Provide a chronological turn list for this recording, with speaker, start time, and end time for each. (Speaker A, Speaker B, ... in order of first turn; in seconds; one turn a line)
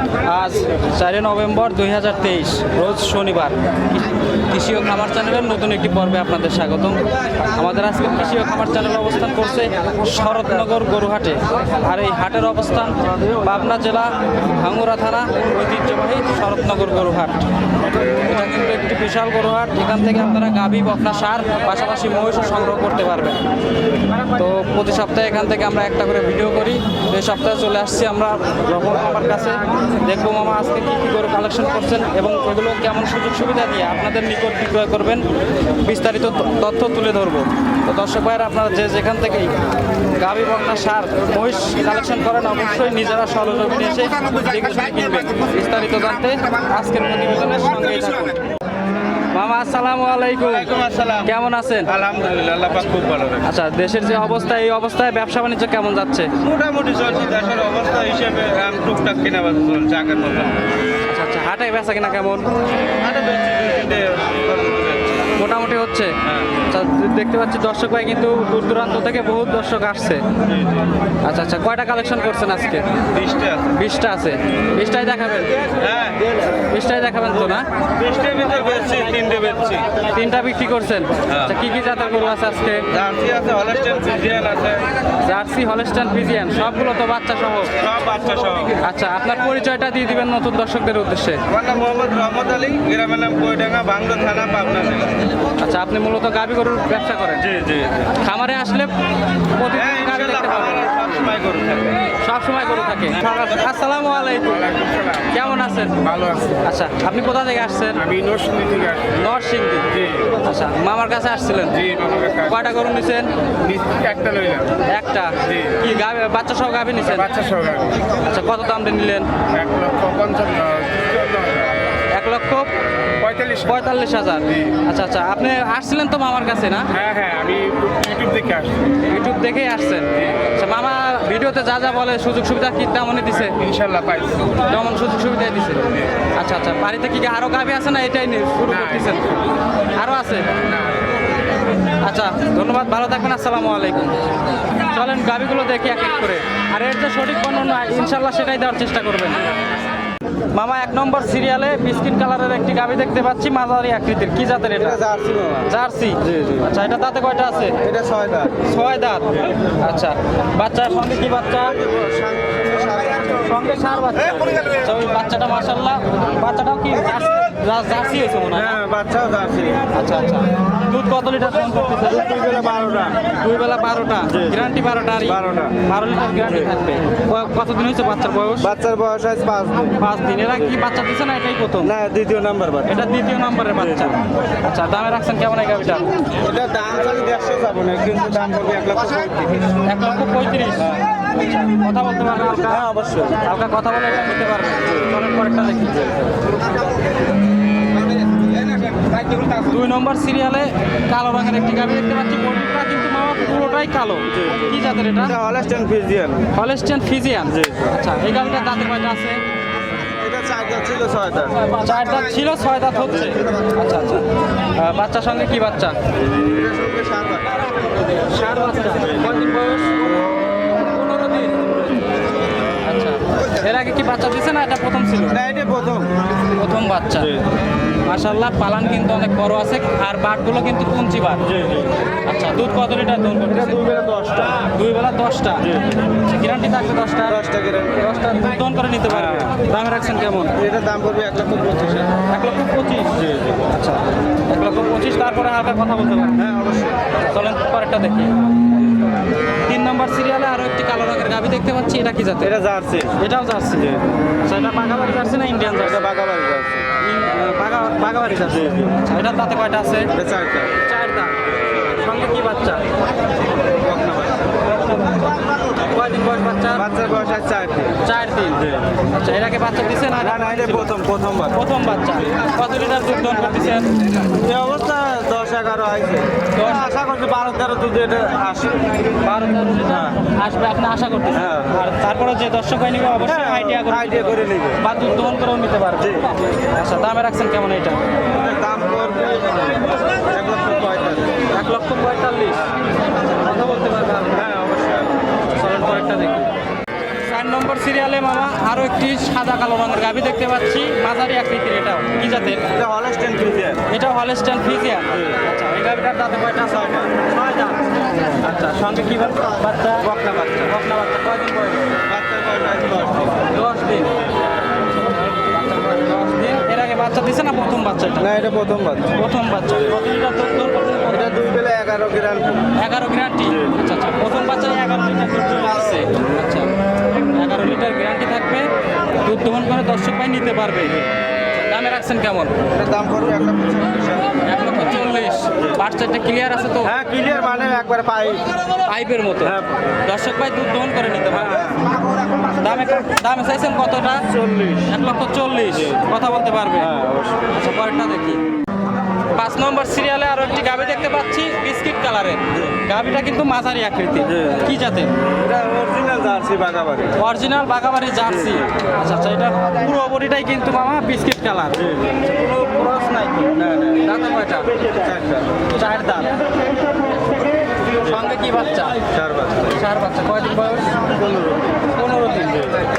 Speaker A: 0.2-17.5
Speaker A: 18.2-23.4
Speaker A: 24.1-35.2
Speaker A: 35.8-39.6
Speaker A: 40.2-48.4
Speaker A: 49.3-50.7
Speaker B: 50.4-53.5
Speaker A: 51.2-51.9
Speaker A: 53.4-56.3
Speaker B: 56.4-60.6
Speaker A: 61.1-62.5
Speaker B: 63.0-65.3
Speaker A: 65.3-70.2
Speaker B: 66.2-66.6
Speaker B: 70.4-70.9
Speaker A: 71.2-73.0
Speaker B: 73.1-73.8
Speaker A: 73.7-75.7
Speaker B: 75.8-76.4
Speaker A: 76.6-77.7
Speaker B: 77.5-80.0
Speaker A: 80.1-82.9
Speaker B: 81.3-81.6
Speaker B: 82.9-84.9
Speaker A: 85.2-87.8
Speaker B: 87.8-88.9
Speaker A: 88.8-91.4
Speaker B: 91.5-95.2
Speaker A: 95.6-97.5
Speaker B: 97.4-98.1
Speaker A: 98.1-98.9
Speaker A: 99.5-100.9
Speaker B: 99.7-102.0
Speaker A: 102.2-106.0
Speaker C: 104.5-105.3
Speaker C: 106.0-106.6
Speaker A: 106.6-108.1
Speaker C: 108.0-109.1
Speaker A: 109.1-113.3
Speaker C: 111.8-112.6
Speaker C: 113.6-114.8
Speaker A: 114.8-117.3
Speaker C: 117.2-118.1
Speaker A: 118.2-119.3
Speaker C: 119.5-121.8
Speaker A: 122.1-122.7
Speaker C: 123.2-123.7
Speaker A: 123.5-126.9
Speaker C: 126.9-128.9
Speaker A: 129.1-133.6
Speaker C: 133.5-134.6
Speaker A: 134.6-140.5
Speaker A: 142.0-144.2
Speaker A: 144.7-149.5
Speaker A: 150.5-155.0
Speaker B: 154.7-156.7
Speaker A: 155.7-157.8
Speaker B: 157.8-158.5
Speaker A: 158.6-161.8
Speaker B: 161.6-163.6
Speaker A: 163.4-168.8
Speaker B: 168.5-169.9
Speaker A: 169.9-172.2
Speaker B: 172.0-173.2
Speaker A: 173.3-178.7
Speaker B: 174.3-175.8
Speaker B: 178.6-180.0
Speaker A: 180.0-181.9
Speaker B: 181.8-183.1
Speaker A: 182.9-186.1
Speaker B: 183.8-184.2
Speaker B: 186.4-189.8
Speaker A: 189.8-196.2
Speaker B: 190.8-191.2
Speaker B: 192.5-193.5
Speaker A: 199.5-205.3
Speaker B: 204.3-204.7
Speaker B: 205.2-206.5
Speaker A: 206.5-209.4
Speaker B: 207.5-208.0
Speaker B: 210.0-211.7
Speaker A: 211.7-216.0
Speaker B: 216.3-217.7
Speaker A: 218.2-221.8
Speaker A: 222.8-225.4
Speaker B: 225.3-226.1
Speaker A: 226.6-227.3
Speaker B: 227.2-227.5
Speaker A: 228.0-231.4
Speaker B: 231.4-232.0
Speaker A: 232.2-233.8
Speaker B: 233.5-234.6
Speaker A: 234.6-240.6
Speaker B: 235.6-236.0
Speaker B: 237.2-238.0
Speaker B: 239.1-239.6
Speaker B: 240.6-242.2
Speaker A: 242.2-246.4
Speaker B: 243.2-243.7
Speaker B: 246.4-247.0
Speaker A: 247.2-248.4
Speaker A: 249.6-252.6
Speaker B: 252.4-253.2
Speaker A: 253.2-253.9
Speaker B: 253.8-254.1
Speaker A: 254.4-256.1
Speaker B: 255.8-256.9
Speaker A: 257.0-260.1
Speaker B: 258.5-258.9
Speaker B: 260.1-260.8
Speaker A: 260.8-262.8
Speaker B: 263.7-264.6
Speaker A: 264.7-266.9
Speaker B: 266.7-268.0
Speaker A: 268.0-270.9
Speaker B: 268.6-268.9
Speaker B: 270.1-271.6
Speaker A: 271.5-273.9
Speaker B: 274.3-279.1
Speaker A: 276.6-276.9
Speaker A: 279.2-288.0
Speaker B: 279.8-280.2
Speaker B: 281.3-281.8
Speaker B: 283.2-284.8
Speaker B: 286.0-286.3
Speaker B: 288.3-291.4
Speaker A: 291.5-292.7
Speaker B: 292.6-292.9
Speaker A: 293.2-294.5
Speaker B: 294.3-295.3
Speaker A: 295.5-296.5
Speaker A: 297.2-302.6
Speaker B: 302.7-303.8
Speaker A: 303.9-312.0
Speaker B: 310.1-310.4
Speaker B: 312.1-313.5
Speaker A: 313.5-314.2
Speaker A: 315.3-318.4
Speaker B: 318.2-319.1
Speaker A: 319.1-321.4
Speaker B: 321.1-322.7
Speaker A: 322.8-326.7
Speaker A: 327.3-332.6
Speaker B: 332.7-334.4
Speaker A: 334.4-336.9
Speaker B: 336.8-338.5
Speaker A: 338.9-341.8
Speaker B: 339.4-339.8
Speaker B: 341.3-341.9
Speaker A: 342.5-344.3
Speaker B: 344.3-344.9
Speaker A: 344.9-346.9
Speaker B: 345.7-346.0
Speaker B: 346.8-347.5
Speaker A: 347.5-348.4
Speaker A: 349.3-355.1
Speaker B: 354.2-357.2
Speaker A: 357.2-364.7
Speaker B: 358.2-358.7
Speaker B: 361.8-362.2
Speaker B: 363.5-364.1
Speaker B: 364.8-365.5
Speaker A: 365.7-366.3
Speaker A: 368.0-369.0
Speaker B: 369.1-369.8
Speaker A: 369.7-371.0
Speaker B: 370.9-371.8
Speaker A: 371.9-372.7